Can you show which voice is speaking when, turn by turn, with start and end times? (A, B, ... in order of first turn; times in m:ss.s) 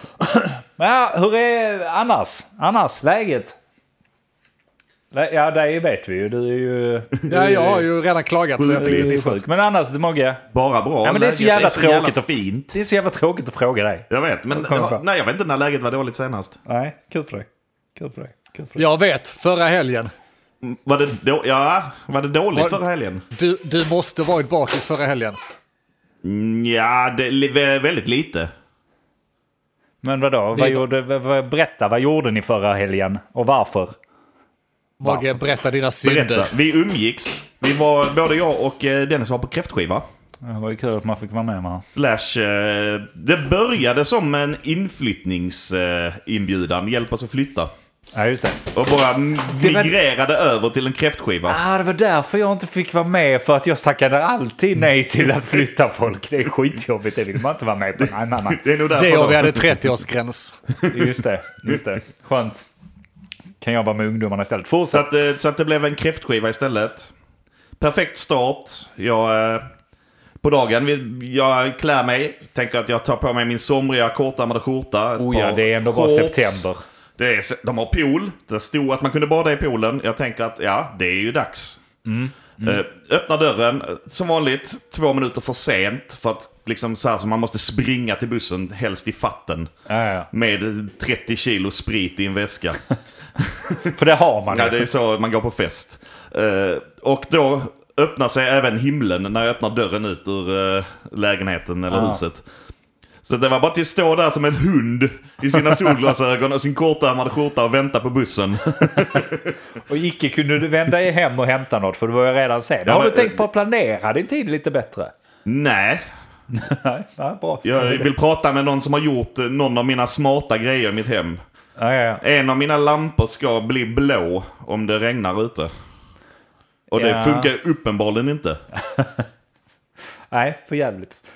0:00.4-0:03.5 A
0:05.1-0:07.8 A
0:07.3-0:09.4 B
0:08.6-0:09.1 C
0:08.7-0:10.4 A
0:10.5-0:12.8 C
0:11.0-0:15.0 A
0:14.1-0:16.6 C
0:16.6-0:18.8 A
0:18.8-0:20.1 B
0:20.6-0:23.2 C
0:23.3-0:25.4 B
0:26.2-0:28.5 C
0:30.0-0:34.0 A
0:30.5-0:30.8 B
0:35.0-0:36.5 B
0:35.0-0:35.4 A
0:36.0-0:40.0 C
0:40.4-0:41.8 A
0:41.9-0:47.7 C
0:48.1-0:48.6 A
0:48.7-0:51.6 C
0:49.5-0:49.9 A
0:51.5-0:58.6 A
0:58.5-0:59.8 C
0:58.9-1:00.6 B
1:00.8-1:01.1 C
1:00.9-1:02.6 A
1:03.6-1:05.1 A
1:04.9-1:07.1 C
1:07.8-1:09.7 C
1:10.4-1:21.8 C
1:15.2-1:16.8 A
1:22.0-1:22.8 A
1:22.6-1:29.7 C
1:29.9-1:30.3 A
1:30.3-1:32.8 C
1:33.4-1:33.9 C
1:33.8-1:34.8 A
1:34.5-1:42.4 C
1:41.9-1:42.2 A
1:43.2-1:49.5 C
1:49.8-1:55.1 A
1:52.8-1:53.4 C
1:55.4-1:56.0 C
1:56.5-1:58.1 A
1:57.6-2:01.4 C
2:01.8-2:02.2 A
2:02.2-2:05.7 C
2:06.9-2:08.6 C
2:06.9-2:07.5 A
2:08.9-2:09.2 A
2:10.3-2:11.2 A